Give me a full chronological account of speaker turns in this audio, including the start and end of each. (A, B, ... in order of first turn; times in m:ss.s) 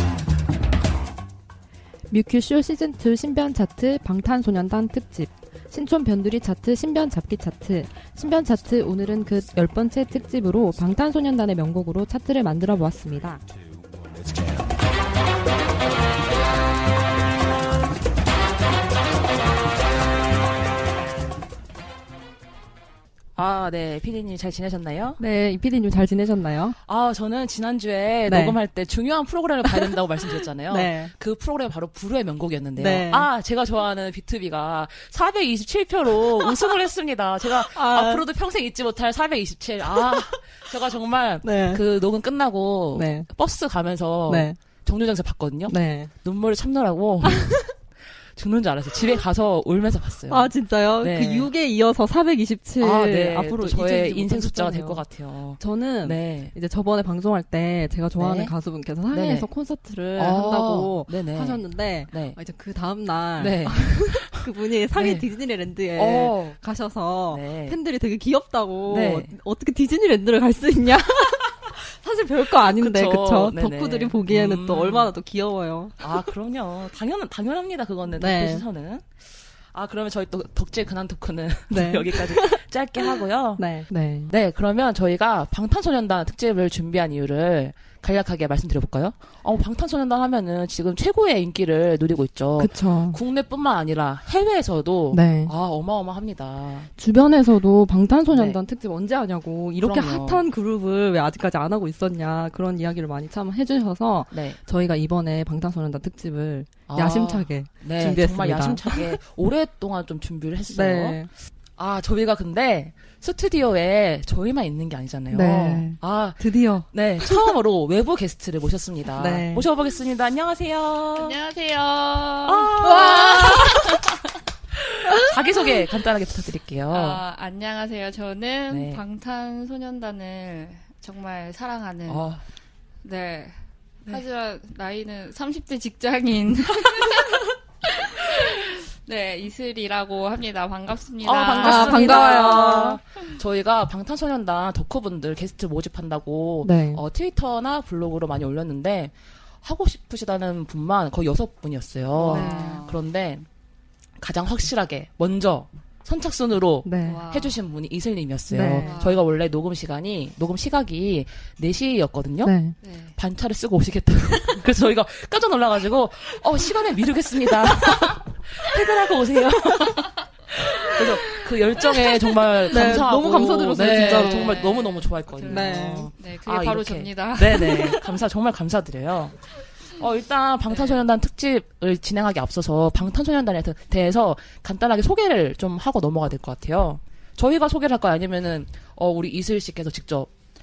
0:02.1-0:13.4 A
0:23.4-0:25.2 B
0:25.2-0:26.8 A
0:26.9-0:47.7 B
0:28.3-0:28.6 A
0:29.6-0:30.0 A
0:30.7-0:31.1 A
0:32.8-0:33.3 A
0:37.7-0:38.2 A
0:39.9-0:40.3 A
0:41.4-0:41.8 A
0:42.9-0:43.3 A
0:44.3-0:44.6 A
0:45.7-0:46.1 A
0:47.2-0:47.7 A
0:48.3-0:51.5 B
0:50.3-0:55.0 A
0:52.8-0:56.5 B
0:55.6-1:16.2 A
0:58.2-0:58.5 B
0:59.1-0:59.5 B
1:00.2-1:02.4 B
1:03.4-1:04.4 B
1:05.0-1:05.3 B
1:06.0-1:06.6 B
1:07.3-1:07.8 B
1:08.9-1:09.3 B
1:12.8-1:15.1 B
1:16.0-1:19.2 B
1:18.2-1:18.6 A
1:19.7-1:23.6 B
1:21.7-1:22.6 A
1:23.1-1:24.3 A
1:24.3-1:36.9 B
1:32.6-1:33.2 A
1:35.1-1:35.5 A
1:37.0-1:49.2 A
1:38.3-1:38.6 B
1:39.8-1:40.4 B
1:44.3-1:44.6 B
1:46.9-1:51.2 B
1:50.7-1:51.3 A
1:51.8-2:01.4 B
1:55.3-1:57.5 A
1:59.2-1:59.6 A
2:01.2-2:04.2 C
2:02.5-2:03.8 B
2:02.8-2:03.8 A
2:05.1-2:07.2 B
2:06.9-2:12.3 C
2:08.7-2:09.0 B
2:12.1-2:12.4 B
2:13.0-2:22.9 C
2:21.2-2:33.5 B
2:21.6-2:23.0 A
2:26.6-2:27.0 A
2:32.2-2:33.0 C
2:32.3-2:32.8 A
2:34.2-2:42.6 B
2:36.8-2:37.2 A
2:37.0-2:37.6 C
2:38.5-2:39.0 A
2:38.7-2:39.2 C
2:42.4-2:42.8 A
2:42.8-2:43.2 C
2:43.2-2:59.4 B
2:50.8-2:51.4 C
2:52.7-2:54.6 A
2:53.7-2:58.0 C
2:55.5-2:56.1 A
3:00.0-3:10.3 B
3:00.7-3:01.0 C